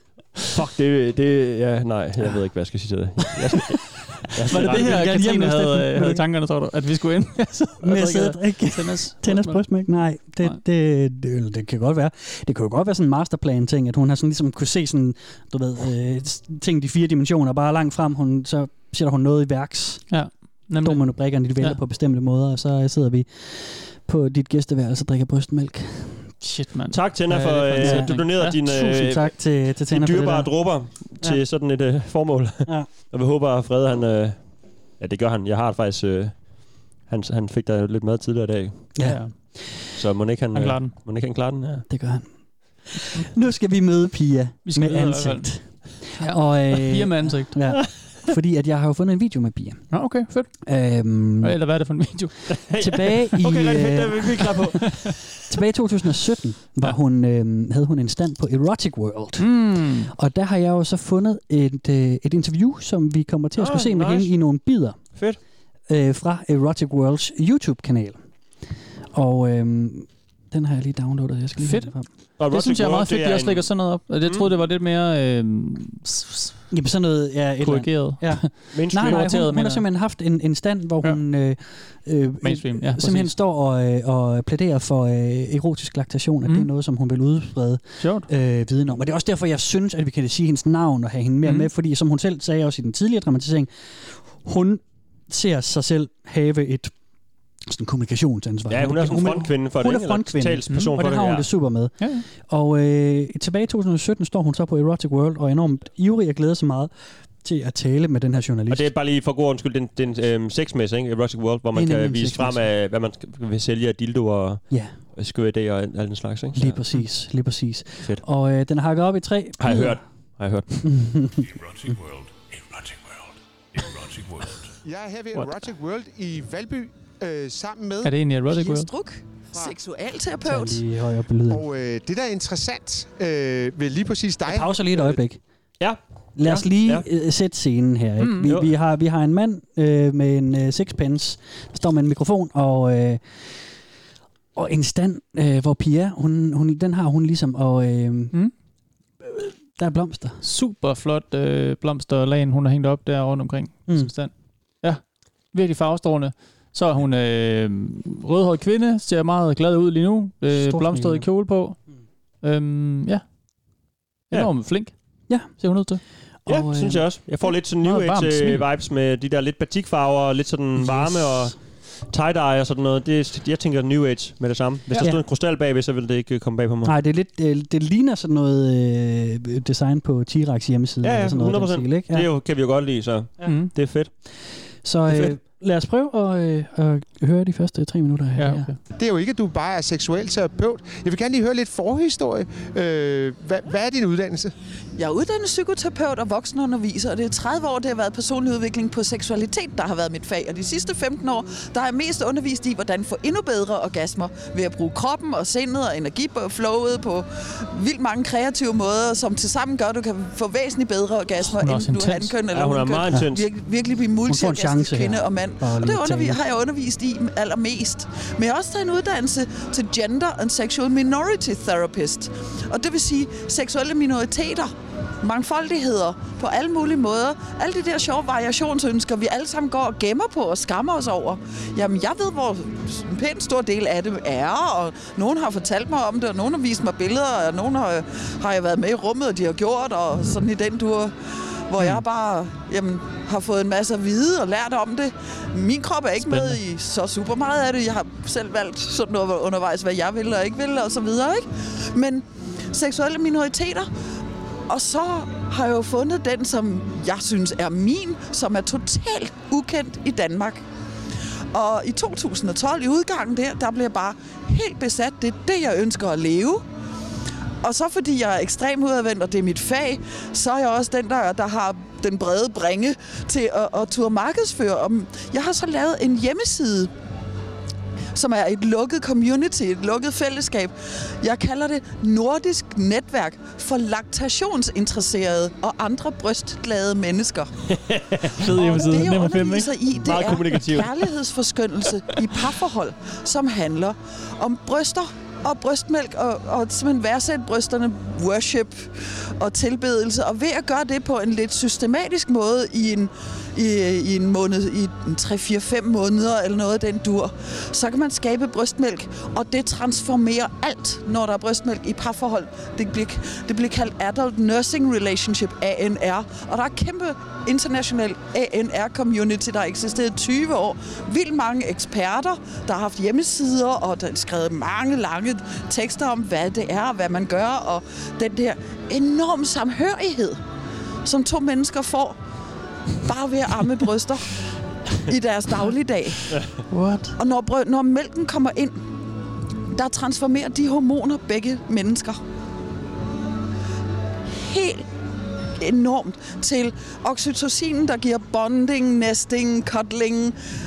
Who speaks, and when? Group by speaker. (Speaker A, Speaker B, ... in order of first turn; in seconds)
Speaker A: 0.5-5.0, 26.9-38.9, 39.9-41.9, 52.5-55.3, 63.6-64.3, 72.4-73.7, 78.7-79.3, 98.7-101.5, 108.7-116.8, 119.6-120.7, 135.8-137.1, 138.4-138.7, 166.5-176.9, 181.0-184.1, 185.1-185.3, 212.5-213.4, 287.7-288.8, 290.0-291.1
Speaker B: 4.4-6.2, 7.8-20.1, 20.8-26.3, 27.8-31.4, 38.9-39.8, 41.9-42.3, 42.8-50.0, 50.6-51.5, 52.8-55.0, 55.5-65.2, 65.9-68.2, 69.1-72.1, 76.7-96.9, 97.6-108.9, 111.7-112.7, 116.5-120.0, 120.8-121.5, 130.4-131.6, 134.5-135.4, 136.3-143.2, 144.5-148.3, 149.2-150.4, 153.9-154.1, 160.5-161.3, 166.4-167.1, 170.8-171.4, 176.8-182.3, 184.8-188.7, 214.3-216.4
Speaker C: 4.5-9.6, 20.1-21.8, 26.4-28.6, 39.0-39.3, 40.5-40.9, 44.6-47.7, 49.9-50.6, 51.4-52.4, 59.4-60.1, 71.6-76.6, 77.6-79.8, 82.4-83.3, 88.0-88.3, 91.4-91.7, 102.0-102.2, 128.0-128.9, 138.2-138.5, 150.4-161.8, 162.4-163.2, 164.3-166.0, 167.8-168.7, 183.4-183.7, 188.4-188.8, 211.5-212.3, 246.2-246.6, 288.4-289.8, 336.7-337.1
Speaker D: 121.4-124.7
Speaker E: 124.8-128.1, 131.5-134.9, 188.9-194.5
Speaker F: 128.5-130.8, 194.9-241.1, 241.7-253.9, 254.7-260.6, 261.5-266.6, 267.6-276.9, 278.1-287.5, 288.5-330.4, 331.0-332.2, 333.0-334.3, 334.9-336.4, 337.2-338.8, 339.7-342.2, 344.4-344.8, 345.6-350.4